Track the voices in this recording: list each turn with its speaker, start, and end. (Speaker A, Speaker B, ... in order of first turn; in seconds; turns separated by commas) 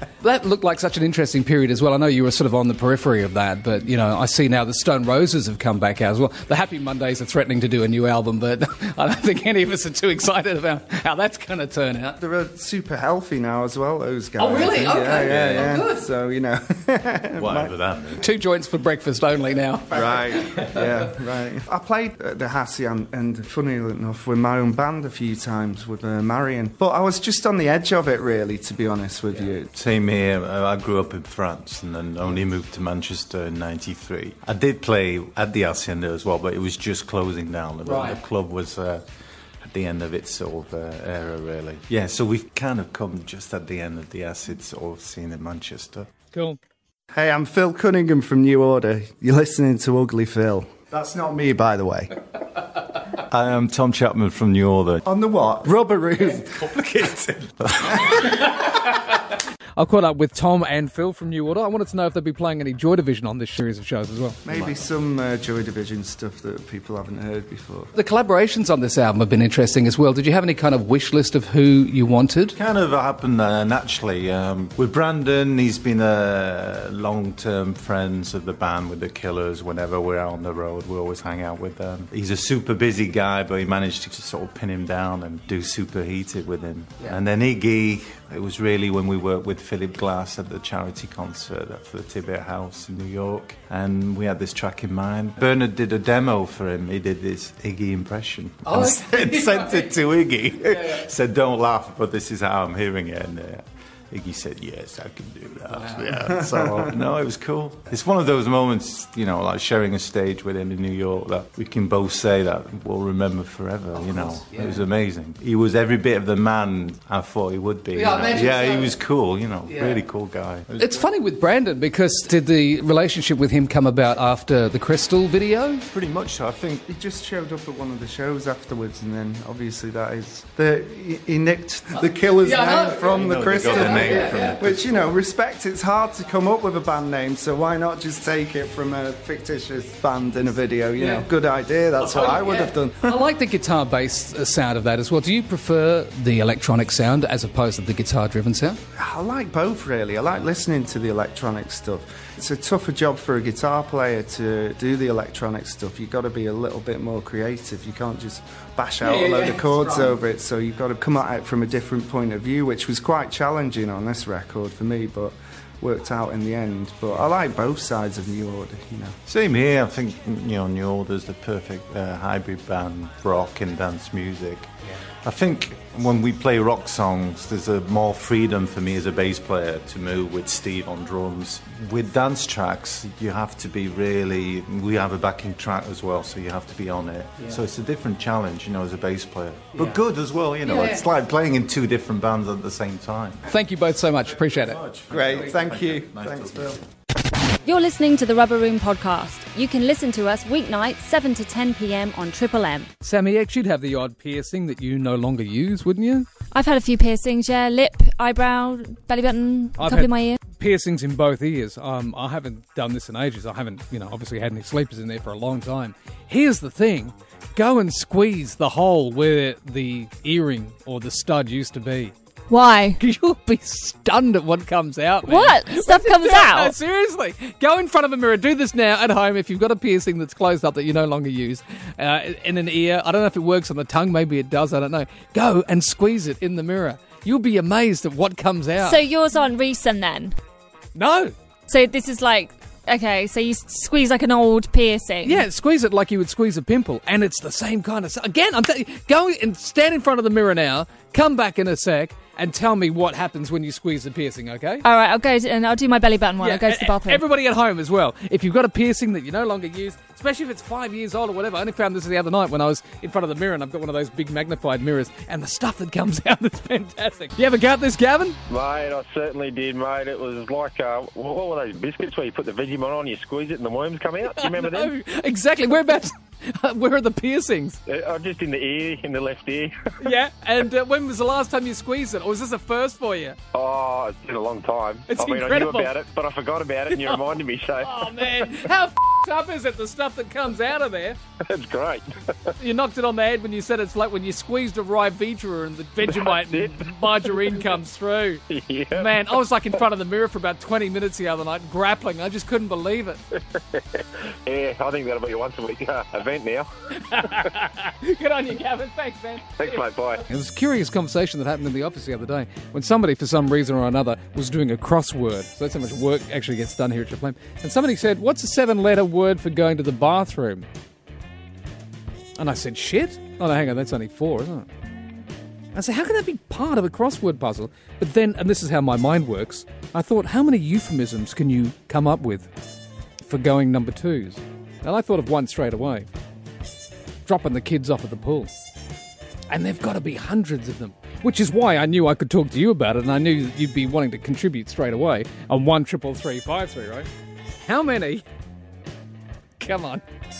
Speaker A: 0.2-12.2, Speaker B: 12.2-17.7, Speaker A: 14.4-16.0, Speaker C: 17.4-18.2, Speaker A: 18.2-20.8, Speaker B: 19.9-29.7, Speaker C: 29.7-39.0, Speaker C: 39.6-46.1, Speaker A: 46.3-46.6, Speaker B: 47.1-52.1, Speaker C: 53.3-55.0, Speaker B: 55.0-58.3, Speaker C: 57.7-58.0, Speaker A: 59.8-64.4, Speaker B: 64.4-67.9, Speaker A: 67.9-72.6, Speaker C: 72.5-120.9, Speaker A: 98.7-99.8, Speaker A: 100.7-101.0, Speaker B: 106.1-106.9, Speaker A: 117.9-118.9, Speaker A: 119.7-120.0, Speaker A: 120.8-125.8, Speaker C: 125.9-126.8, Speaker B: 126.8-143.2, Speaker A: 132.4-134.5, Speaker C: 133.1-135.0, Speaker A: 141.0-141.2, Speaker A: 142.0-148.8, Speaker B: 148.9-169.1, Speaker A: 159.1-160.1, Speaker C: 169.3-174.7, Speaker C: 175.2-193.4, Speaker A: 190.7-191.0, Speaker A: 193.5-194.8, Speaker C: 194.4-196.8, Speaker B: 195.1-196.8, Speaker D: 197.6-202.9, Speaker A: 203.0-206.3, Speaker D: 206.5-210.4, Speaker A: 209.8-222.1, Speaker D: 222.5-223.0, Speaker A: 223.0-239.0, Speaker D: 225.2-226.7, Speaker D: 238.8-240.3, Speaker A: 240.9-241.3, Speaker D: 241.7-245.4, Speaker A: 245.2-254.8, Speaker D: 254.8-257.2, Speaker A: 256.4-268.4, Speaker E: 268.5-274.9, Speaker A: 274.2-277.8, Speaker E: 277.9-279.7, Speaker A: 280.0-283.4, Speaker E: 283.5-288.1, Speaker A: 285.1-285.9, Speaker A: 286.9-287.2, Speaker A: 287.8-291.2, Speaker E: 291.5-292.1, Speaker A: 292.6-303.2, Speaker E: 296.1-297.3, Speaker E: 298.5-299.2, Speaker E: 303.7-306.7, Speaker A: 307.0-320.7, Speaker E: 309.6-310.2, Speaker A: 322.4-324.7, Speaker A: 325.7-332.5, Speaker A: 333.2-336.1, Speaker A: 337.2-338.5, Speaker A: 339.5-347.1, Speaker A: 347.6-348.2, Speaker A: 349.6-350.0